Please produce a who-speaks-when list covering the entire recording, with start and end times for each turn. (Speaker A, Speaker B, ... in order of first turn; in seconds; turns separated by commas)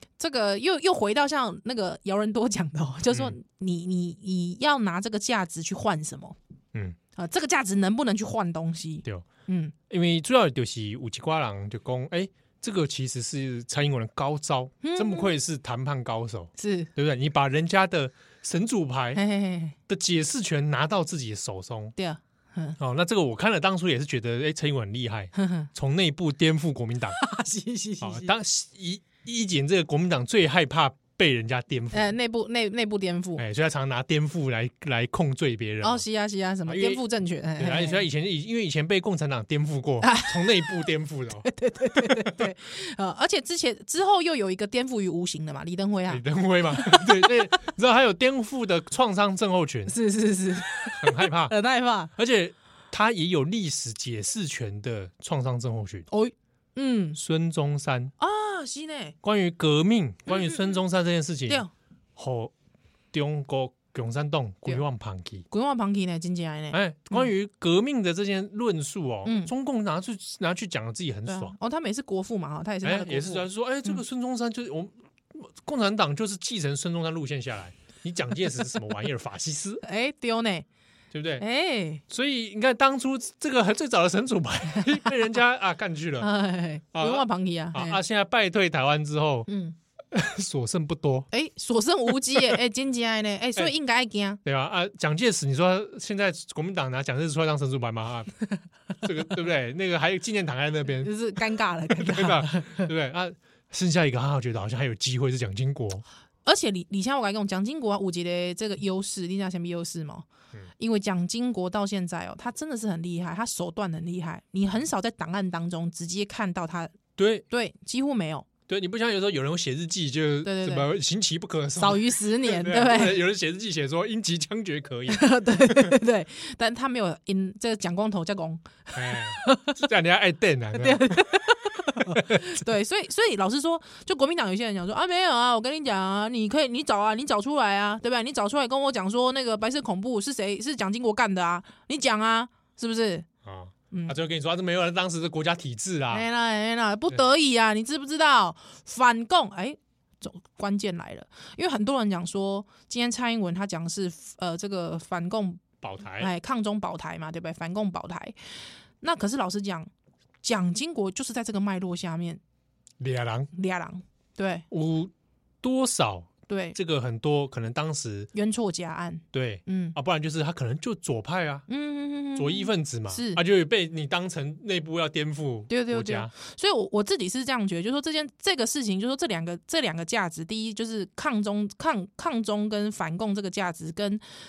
Speaker A: 0.2-6.3, Speaker B: 3.1-3.4, Speaker A: 7.2-9.7, Speaker B: 9.9-19.2, Speaker A: 14.8-15.3, Speaker A: 16.6-16.9, Speaker A: 19.1-19.8, Speaker B: 19.9-21.9, Speaker A: 21.9-22.8, Speaker B: 22.8-27.2, Speaker A: 25.4-25.7, Speaker A: 27.2-28.3, Speaker B: 28.0-32.1, Speaker A: 31.9-33.4, Speaker B: 33.4-36.0, Speaker A: 35.8-38.0, Speaker B: 36.6-37.0, Speaker B: 37.6-42.5, Speaker A: 40.0-40.9, Speaker A: 41.4-47.7, Speaker B: 46.1-50.0, Speaker A: 49.9-52.1, Speaker B: 50.9-51.5, Speaker B: 52.1-56.1, Speaker A: 56.1-57.2, Speaker B: 57.1-58.1, Speaker A: 58.2-59.1, Speaker B: 59.2-61.6, Speaker A: 60.3-60.6, Speaker B: 62.1-62.5, Speaker B: 63.1-65.4, Speaker A: 65.5-67.3, Speaker B: 66.7-71.5, Speaker A: 69.2-69.5, Speaker A: 71.3-74.0, Speaker B: 72.8-79.8, Speaker A: 79.8-80.7, Speaker B: 81.1-81.4, Speaker A: 81.4-82.0, Speaker B: 82.1-86.3, Speaker A: 84.8-85.1, Speaker A: 86.2-88.0, Speaker B: 86.9-89.5, Speaker A: 89.5-89.8, Speaker B: 90.1-91.3, Speaker A: 91.3-94.4, Speaker B: 94.4-98.3, Speaker B: 99.0-101.1, Speaker A: 101.0-102.9, Speaker B: 102.1-106.0, Speaker A: 106.4-110.2, Speaker A: 110.8-117.0, Speaker B: 117.2-117.4, Speaker A: 117.5-118.5, Speaker B: 118.7-125.9, Speaker A: 120.4-120.9, Speaker A: 121.8-123.2, Speaker A: 125.1-129.8, Speaker B: 128.9-131.3, Speaker A: 130.7-143.3, Speaker B: 131.9-132.6, Speaker B: 143.4-146.3, Speaker A: 146.1-155.6, Speaker B: 155.8-156.3, Speaker A: 156.2-158.4, Speaker A: 159.0-159.9, Speaker A: 160.4-162.4, Speaker B: 163.0-163.5, Speaker A: 163.5-164.7, Speaker B: 164.7-168.3, Speaker A: 166.5-166.8, Speaker A: 168.3-169.9, Speaker B: 169.3-171.7, Speaker A: 171.7-173.4, Speaker B: 172.3-176.3, Speaker A: 175.7-184.2